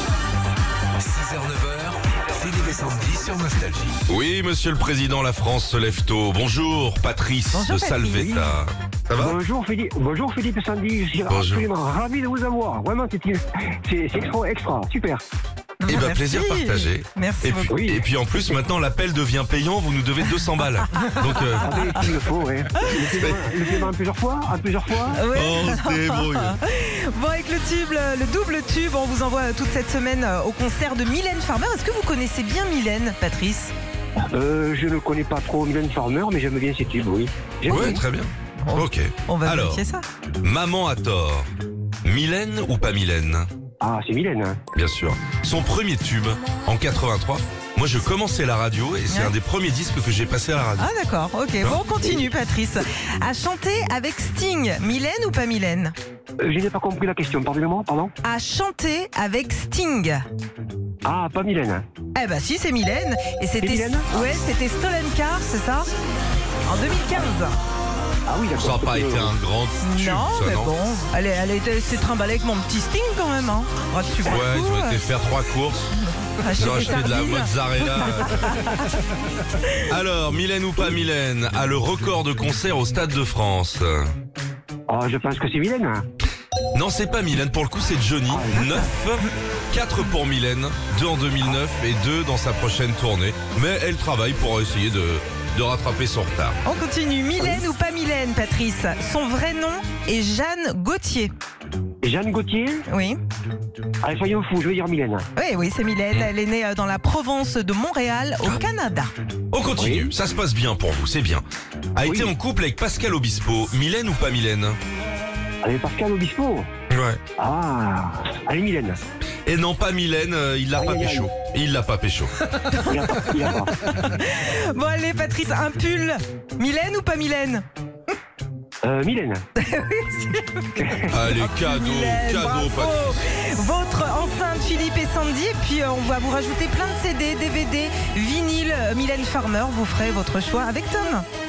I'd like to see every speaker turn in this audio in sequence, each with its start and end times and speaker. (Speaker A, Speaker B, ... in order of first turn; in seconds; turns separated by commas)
Speaker A: 1.0-4.0, Speaker B: 4.1-9.4, Speaker C: 7.5-8.5, Speaker D: 9.2-15.2, Speaker B: 11.3-11.7, Speaker C: 15.8-17.8, Speaker B: 15.9-21.8, Speaker D: 17.7-18.0, Speaker C: 20.9-21.5, Speaker D: 21.6-25.2, Speaker B: 23.2-23.4, Speaker C: 25.1-33.7, Speaker B: 25.3-26.6, Speaker D: 34.3-38.0, Speaker B: 37.7-39.8, Speaker C: 37.7-38.0, Speaker C: 38.6-40.0, Speaker B: 40.4-41.5, Speaker B: 42.0-43.5, Speaker D: 43.8-44.6, Speaker B: 44.7-50.9, Speaker C: 49.1-49.3, Speaker C: 50.8-55.9, Speaker B: 51.6-52.2, Speaker D: 56.4-58.1, Speaker C: 58.2-60.2, Speaker D: 61.0-61.9, Speaker C: 62.1-65.9, Speaker D: 63.6-64.3, Speaker C: 66.7-67.5, Speaker D: 68.3-69.3, Speaker B: 68.6-70.7, Speaker C: 69.8-75.0, Speaker B: 74.2-75.9, Speaker C: 76.4-78.9, Speaker B: 76.5-78.7, Speaker C: 79.5-79.8, Speaker B: 79.8-84.1, Speaker D: 84.9-86.0, Speaker B: 86.7-96.6, Speaker D: 88.3-88.6, Speaker C: 88.5-88.8, Speaker C: 96.6-101.3, Speaker D: 102.0-102.8, Speaker C: 102.9-103.2, Speaker D: 104.0-105.2, Speaker C: 105.3-109.1, Speaker B: 109.5-111.4, Speaker D: 109.8-110.1, Speaker B: 111.9-114.8, Speaker D: 112.0-112.3, Speaker D: 115.6-116.7, Speaker B: 116.9-117.2, Speaker D: 117.4-119.0, Speaker B: 119.5-122.3, Speaker D: 120.7-121.3, Speaker C: 122.7-127.6, Speaker D: 122.8-123.7, Speaker D: 128.8-129.4, Speaker C: 129.6-141.2, Speaker D: 130.8-131.2, Speaker B: 131.1-133.2